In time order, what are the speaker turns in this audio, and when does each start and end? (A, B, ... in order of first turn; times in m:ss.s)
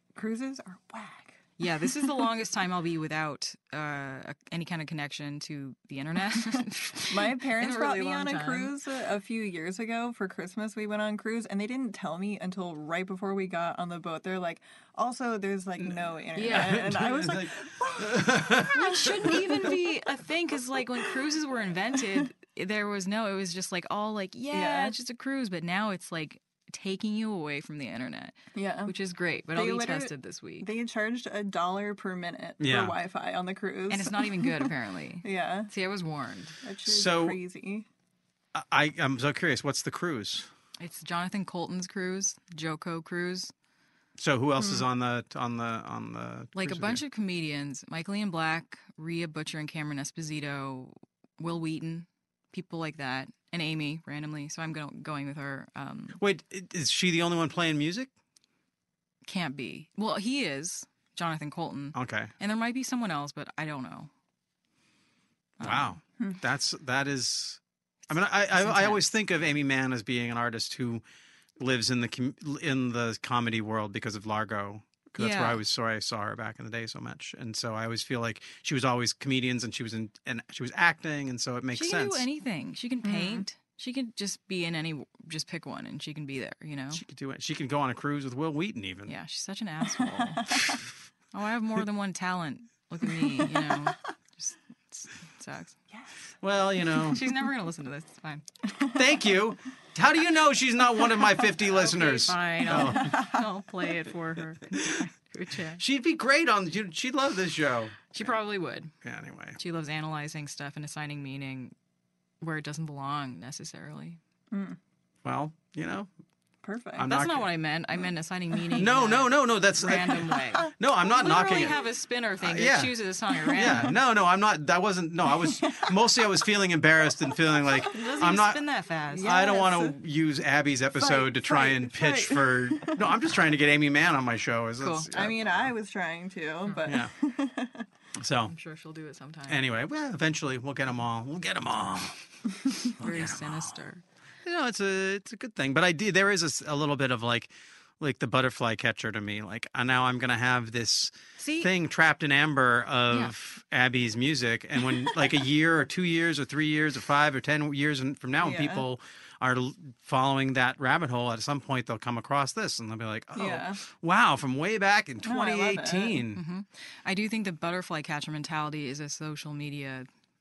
0:00.2-0:01.4 A
0:01.6-0:08.7 B
0:07.1-0:19.7 A
0:15.8-0:19.4 C
0:16.3-0:16.8 B
0:18.6-0:30.7 B
0:24.5-0:25.0 A
0:28.5-0:28.9 A
0:29.5-0:34.7 A
0:32.6-0:33.0 C
0:33.9-0:36.6 B
0:35.2-0:35.7 A
0:36.6-0:37.9 A
0:36.8-0:37.4 C
0:38.5-0:40.5 C
0:40.8-0:43.5 B
0:44.2-0:47.0 C
0:44.6-0:44.8 A
0:46.5-0:56.2 B
0:56.2-0:58.1 C
0:59.2-1:04.1 B
1:01.9-1:02.3 C
1:05.6-1:06.0 B
1:05.6-1:11.0 C
1:08.5-1:09.0 B
1:11.6-1:22.2 C
1:15.2-1:15.6 B
1:21.7-1:27.0 B
1:23.0-1:23.4 A
1:26.9-1:29.1 C
1:29.1-1:30.8 B
1:30.0-1:30.8 A
1:31.3-1:35.8 B
1:33.2-1:33.8 A
1:36.4-1:37.2 C
1:36.9-1:38.4 B
1:38.8-1:43.2 C
1:41.6-1:45.8 B
1:42.8-1:43.4 A
1:44.7-1:45.0 C
1:45.8-1:48.2 C
1:48.1-1:48.9 B
1:49.0-1:49.6 C
1:49.6-1:51.7 B
1:52.4-1:54.2 B
1:54.5-1:54.8 A
1:55.2-1:56.1 C
1:56.6-1:57.1 A
1:57.0-1:57.5 C
1:57.1-2:04.0 B
1:58.8-2:01.7 C
2:02.4-2:03.0 C
2:03.5-2:08.6 C
2:05.4-2:05.9 A
2:07.8-2:09.3 B
2:09.1-2:10.0 A
2:09.2-2:15.7 C
2:11.0-2:13.1 A
2:14.8-2:15.1 B
2:15.1-2:17.9 A
2:16.8-2:17.1 C
2:18.2-2:18.5 C
2:18.5-2:19.6 B
2:19.5-2:23.7 C
2:23.0-2:24.0 B
2:24.4-2:46.4 C
2:31.4-2:31.7 B
2:38.4-2:38.8 A
2:43.4-2:43.8 A
2:45.2-2:46.2 A
2:46.3-2:50.1 B